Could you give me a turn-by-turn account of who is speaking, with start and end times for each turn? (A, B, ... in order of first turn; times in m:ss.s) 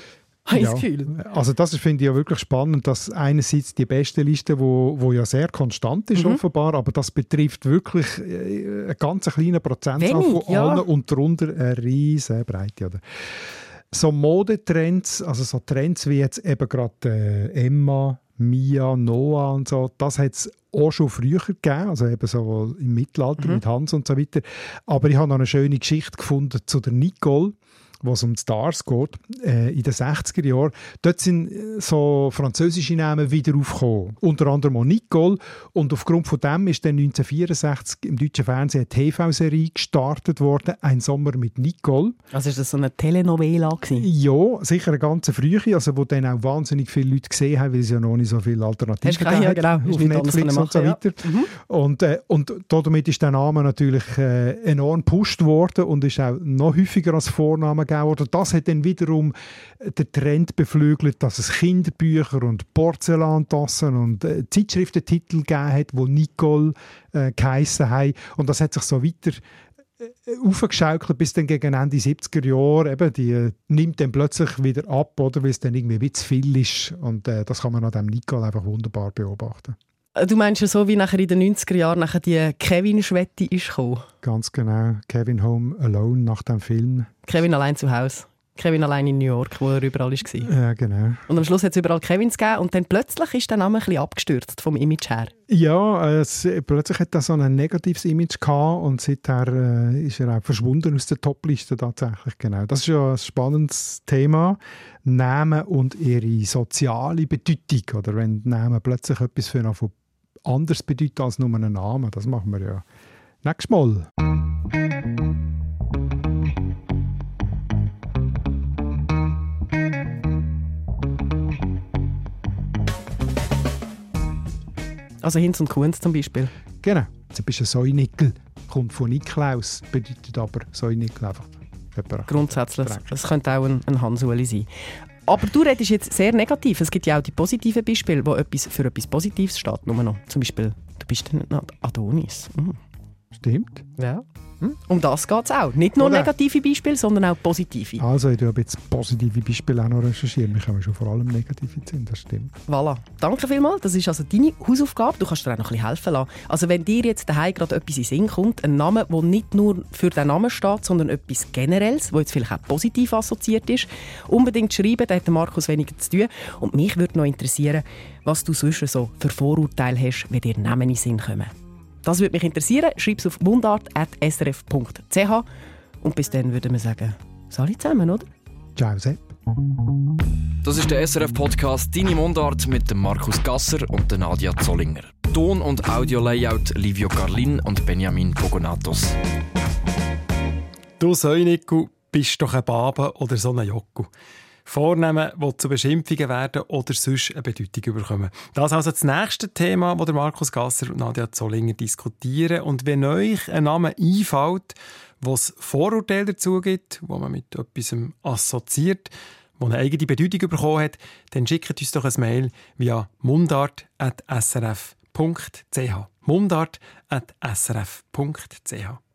0:00.5-0:01.1 A
0:00.5-0:42.2 B
0:06.2-0:06.4 A
0:10.0-0:10.8 A
0:42.3-0:44.1 A
0:43.9-1:09.4 B
0:49.0-0:51.5 A
1:10.0-1:19.8 B
1:20.2-1:24.0 A
1:24.2-1:27.1 B
1:27.2-1:30.5 A
1:30.4-1:31.2 B
1:31.3-1:35.3 A
1:35.5-1:52.8 B
1:53.4-1:54.1 B
2:05.2-2:06.5 A
2:06.8-2:13.1 B
2:12.3-2:14.7 A
2:15.2-2:22.8 A
2:23.3-2:23.8 B
2:24.0-2:28.0 A
2:26.0-2:26.3 B
2:28.0-2:32.5 B
2:32.7-2:51.5 A
2:52.0-2:55.4 A
2:56.0-2:58.3 A
2:58.8-2:59.3 B
3:00.6-3:09.1 C
3:11.0-3:14.1 D
3:14.6-3:39.0 D